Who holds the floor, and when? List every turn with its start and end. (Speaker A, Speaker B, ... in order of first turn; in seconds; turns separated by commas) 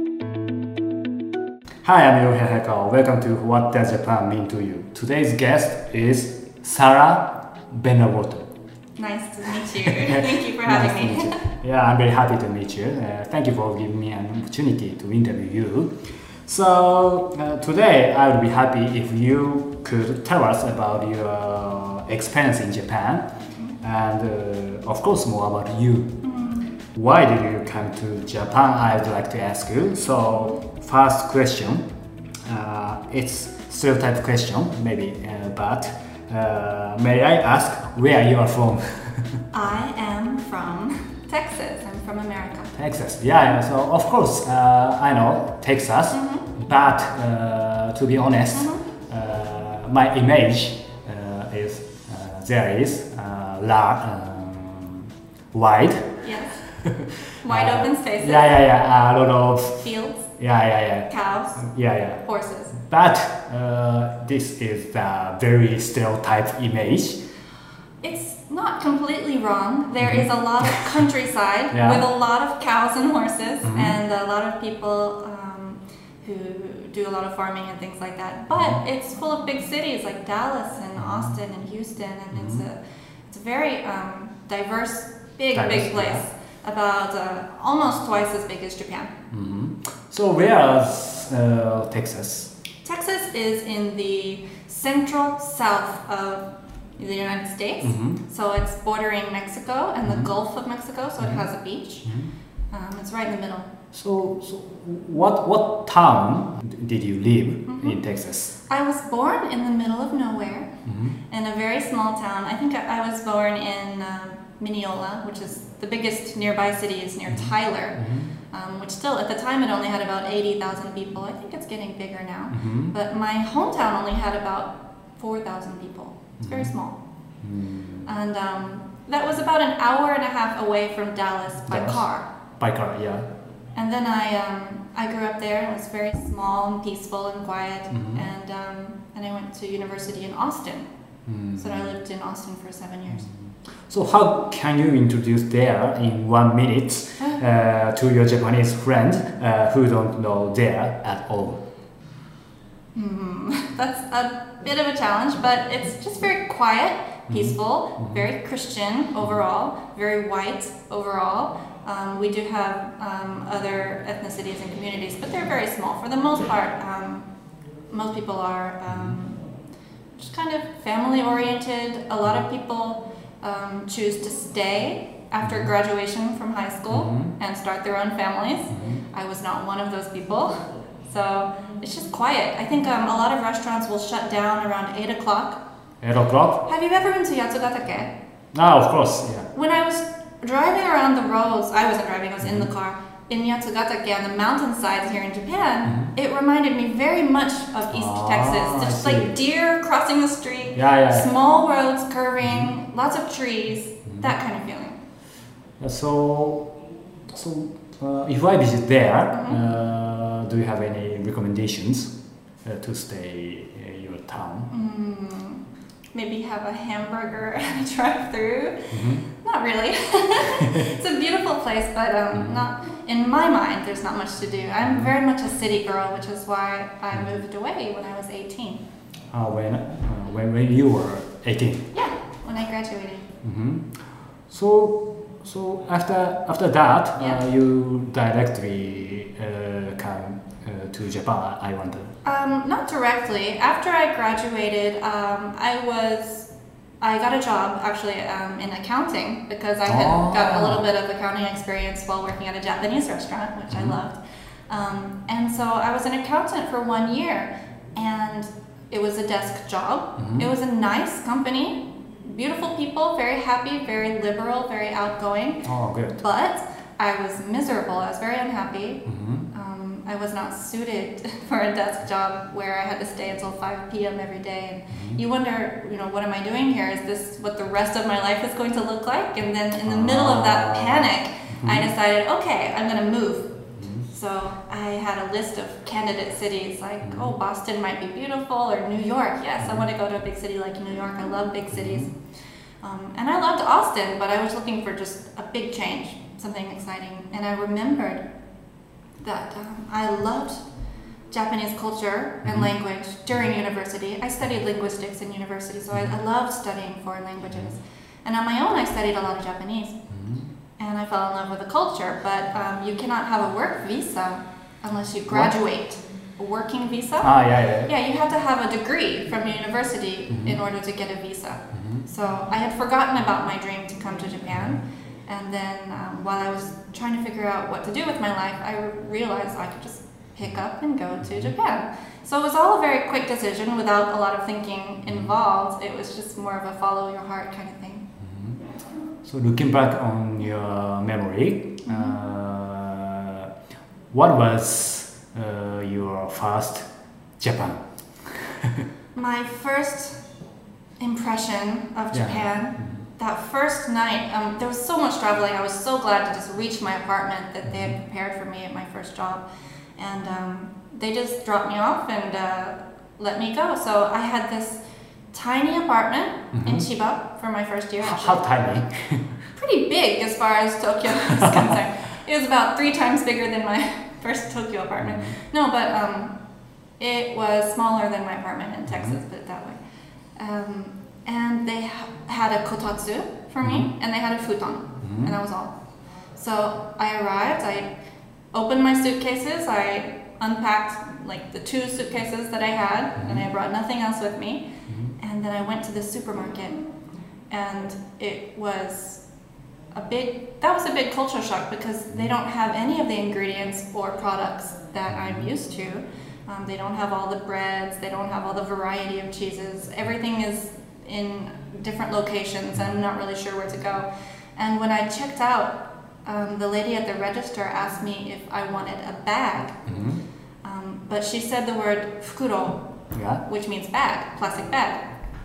Speaker A: 1.8-8.5, Speaker B: 9.0-11.4, Speaker A: 9.7-23.3, Speaker A: 23.8-26.2, Speaker B: 26.2-26.7, Speaker A: 26.9-31.9, Speaker A: 32.5-39.4, Speaker B: 39.5-42.7, Speaker A: 42.7-59.9, Speaker B: 46.1-46.5, Speaker B: 48.5-48.9, Speaker B: 56.2-56.6, Speaker B: 57.4-58.6, Speaker B: 59.8-60.3, Speaker A: 60.4-62.2, Speaker B: 61.1-61.7, Speaker B: 62.2-62.8, Speaker A: 62.8-67.2, Speaker B: 68.0-89.1, Speaker A: 70.0-70.8, Speaker A: 71.7-72.1, Speaker A: 73.6-74.0, Speaker A: 81.0-81.3, Speaker A: 82.3-82.7, Speaker A: 85.5-86.2, Speaker A: 89.3-92.5, Speaker B: 92.8-96.4, Speaker B: 97.0-102.1, Speaker A: 97.8-98.2, Speaker A: 100.0-100.3, Speaker A: 102.0-102.3, Speaker B: 102.7-103.7, Speaker A: 103.9-108.5, Speaker B: 107.7-108.0, Speaker B: 108.7-110.7, Speaker A: 110.9-111.2, Speaker B: 111.3-127.0, Speaker A: 117.3-118.3, Speaker A: 122.5-122.9, Speaker A: 126.4-126.7, Speaker A: 127.4-128.1, Speaker B: 128.1-132.3, Speaker A: 131.7-132.1, Speaker A: 132.6-133.3, Speaker B: 133.8-140.9, Speaker A: 137.9-138.3, Speaker A: 141.3-141.9, Speaker B: 141.6-143.3, Speaker A: 143.9-151.6, Speaker B: 152.9-167.3, Speaker A: 157.3-158.3, Speaker B: 167.9-169.4, Speaker A: 168.9-169.2, Speaker B: 170.2-180.5, Speaker A: 175.4-175.7, Speaker A: 176.9-177.3, Speaker A: 178.7-179.0, Speaker B: 181.1-185.6, Speaker A: 186.0-186.7, Speaker B: 186.7-188.1, Speaker A: 188.5-189.5, Speaker B: 189.5-205.0, Speaker A: 192.4-192.7, Speaker A: 195.9-196.1, Speaker A: 197.9-199.3, Speaker A: 200.8-201.3, Speaker A: 202.4-202.7, Speaker A: 205.8-206.7, Speaker A: 207.3-214.7, Speaker B: 209.3-209.6, Speaker B: 214.7-215.6, Speaker B: 216.2-228.8, Speaker A: 218.9-219.3, Speaker A: 220.6-220.9, Speaker A: 222.3-222.6, Speaker A: 224.8-225.1, Speaker A: 229.3-231.9, Speaker B: 231.9-233.3, Speaker A: 233.4-242.1, Speaker B: 242.2-246.5, Speaker B: 247.0-265.7, Speaker A: 249.9-250.8, Speaker A: 253.7-254.0, Speaker A: 260.2-260.5, Speaker A: 265.6-266.2, Speaker B: 266.2-283.5, Speaker A: 269.1-269.5, Speaker A: 274.9-275.2, Speaker A: 279.9-281.9, Speaker A: 283.8-284.1, Speaker B: 284.1-292.1, Speaker A: 287.0-287.3, Speaker A: 291.7-292.1, Speaker B: 292.8-298.2, Speaker B: 299.2-300.6, Speaker B: 301.3-310.0, Speaker A: 302.4-302.7, Speaker A: 310.1-310.5, Speaker B: 310.8-338.1, Speaker A: 315.3-315.6, Speaker A: 317.2-317.9, Speaker A: 320.3-320.6, Speaker A: 321.7-322.1, Speaker A: 331.2-331.5, Speaker A: 338.2-338.6, Speaker A: 339.2-343.5, Speaker B: 341.9-342.2, Speaker A: 344.1-346.9, Speaker A: 347.4-348.9, Speaker B: 349.1-350.2, Speaker B: 351.0-359.4, Speaker A: 352.1-353.1, Speaker A: 357.7-357.9, Speaker B: 360.0-364.8, Speaker B: 365.3-368.4, Speaker A: 366.5-366.9, Speaker A: 368.0-369.4, Speaker B: 369.6-376.4, Speaker A: 371.3-371.8, Speaker A: 375.0-375.4, Speaker B: 377.0-379.8, Speaker A: 378.9-379.2, Speaker B: 380.4-385.7, Speaker A: 383.6-383.9, Speaker A: 385.0-385.4, Speaker B: 386.4-387.9, Speaker B: 388.5-394.6, Speaker A: 393.2-393.5, Speaker B: 395.2-396.8, Speaker B: 397.5-399.2, Speaker B: 399.9-414.1, Speaker A: 405.1-405.5, Speaker B: 414.6-419.8, Speaker A: 419.9-420.2, Speaker B: 420.6-422.9, Speaker A: 423.1-423.4, Speaker B: 423.4-425.1